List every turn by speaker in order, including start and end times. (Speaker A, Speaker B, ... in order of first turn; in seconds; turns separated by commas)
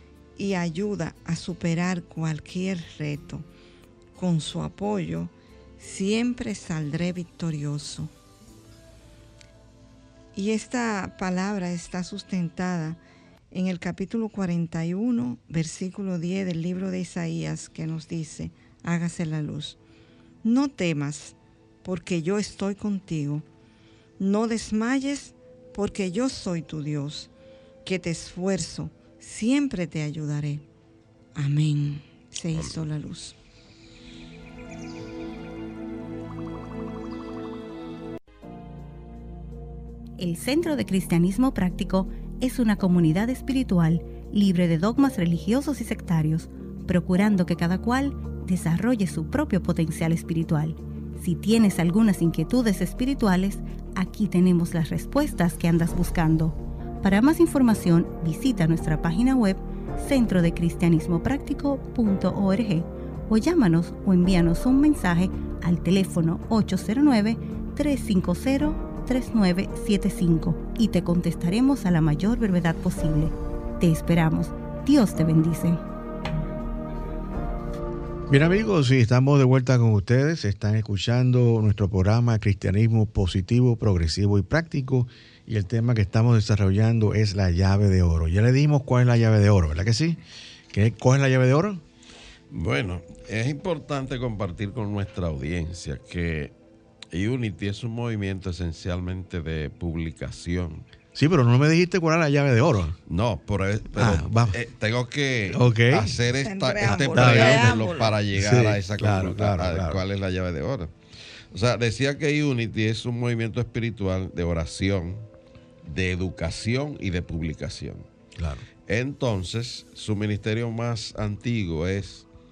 Speaker A: 0.3-3.5, Speaker A: 4.2-8.1, Speaker A: 10.3-13.0, Speaker A: 13.5-19.8, Speaker A: 20.4-23.4, Speaker A: 24.2-27.3, Speaker A: 27.8-30.6, Speaker A: 31.4-33.4, Speaker B: 32.5-32.9, Speaker C: 40.2-75.8, Speaker D: 78.3-90.2, Speaker D: 90.7-91.8, Speaker B: 92.5-96.5, Speaker B: 97.1-100.8, Speaker D: 101.1-103.0, Speaker B: 103.1-110.9, Speaker D: 104.0-104.6, Speaker D: 105.5-106.2, Speaker A: 106.3-108.2, Speaker D: 106.8-110.0, Speaker B: 111.5-115.3, Speaker B: 115.8-118.0, Speaker D: 118.4-118.6, Speaker B: 118.9-122.2